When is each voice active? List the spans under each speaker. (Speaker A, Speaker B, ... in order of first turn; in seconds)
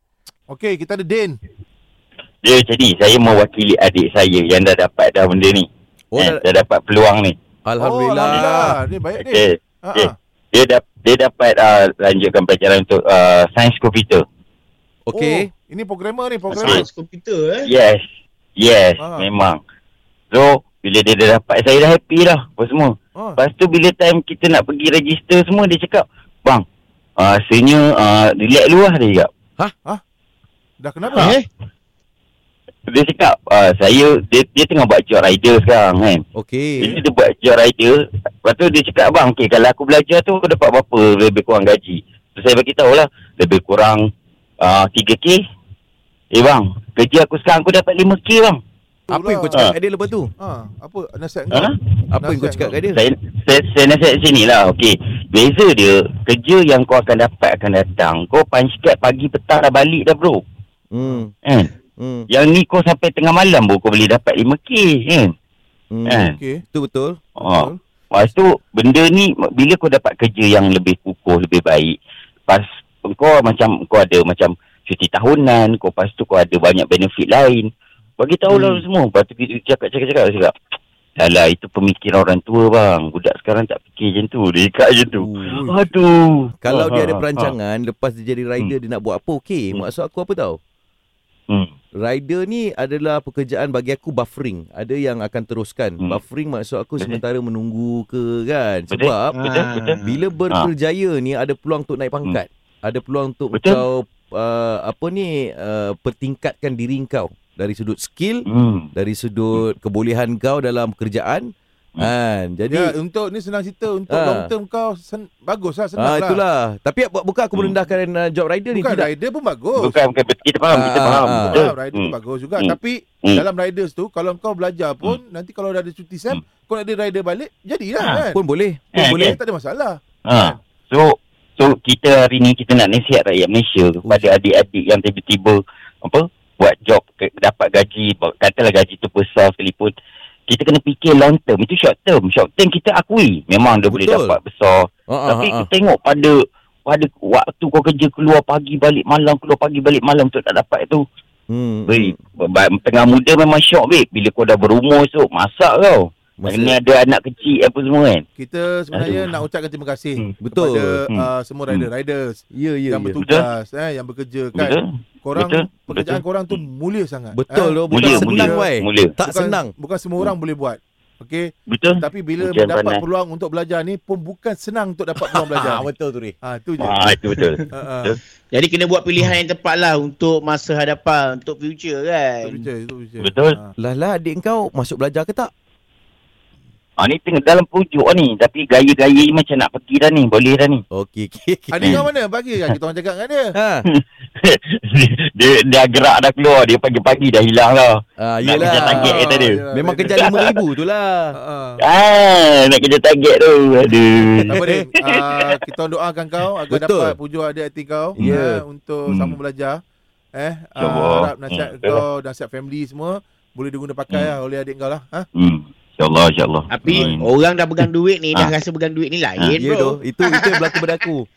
Speaker A: 0.5-1.4, 7.8-10.1, 15.1-16.9, 19.0-19.3, 30.8-31.4, 49.1-49.6, 50.4-52.8, 66.2-66.6, 67.4-67.8, 85.5-85.8, 112.7-116.4, 118.7-119.9, 121.5-128.4, 129.0-130.6, 158.4-168.7, 169.2-175.9, 176.4-176.9, 177.7-178.1, 182.4-183.7, 191.7-193.5, 198.6-200.2, 201.3-201.8, 204.5-209.8, 210.3-215.3
Speaker B: 2.4-7.3, 8.2-8.5, 9.2-14.2, 16.5-16.9, 17.6-18.0, 18.6-19.6, 20.3-26.6, 27.2-29.3, 32.9-36.2, 36.8-44.0, 44.6-45.4, 46.3-48.6, 51.5-51.8, 52.9-60.4, 61.4-61.7, 62.3-65.3, 66.0-66.4, 67.4-72.0, 72.5-77.7, 78.2-80.5, 81.2-87.5, 98.9-100.7, 103.5-103.8, 108.5-108.9, 119.8-123.4, 128.9-129.3, 130.2-139.9, 140.5-151.0, 151.9-158.2, 158.9-159.3, 161.1-161.9, 164.5-166.6, 167.9-169.1, 171.7-173.0, 176.8-178.2, 183.2-183.6, 187.0-190.8, 193.9-199.6, 200.1-200.6, 201.8-204.5, 209.1-209.3, 210.8-212.0, 215.3-217.3
Speaker C: 6.1-6.4, 7.7-8.7, 15.1-15.5, 36.3-37.0, 49.1-50.3, 52.1-53.0, 60.9-61.3, 62.0-62.3, 65.9-67.2, 78.5-78.8, 85.2-85.6, 86.6-90.6, 92.0-99.4, 100.0-112.9, 114.1-114.5, 116.0-119.1, 120.7-121.7, 128.3-129.3, 143.9-144.4, 145.1-145.7, 151.5-152.2, 156.4-156.8, 160.4-161.0, 162.5-163.2, 167.3-169.7, 175.6-176.3, 183.8-185.5, 190.9-192.0, 193.5-193.9, 198.2-201.3, 204.5-204.8, 206.7-207.1, 208.2-208.6, 219.6-221.3
Speaker D: 16.6-17.7, 31.1-31.4, 99.3-100.0, 178.5-182.6, 216.7-220.9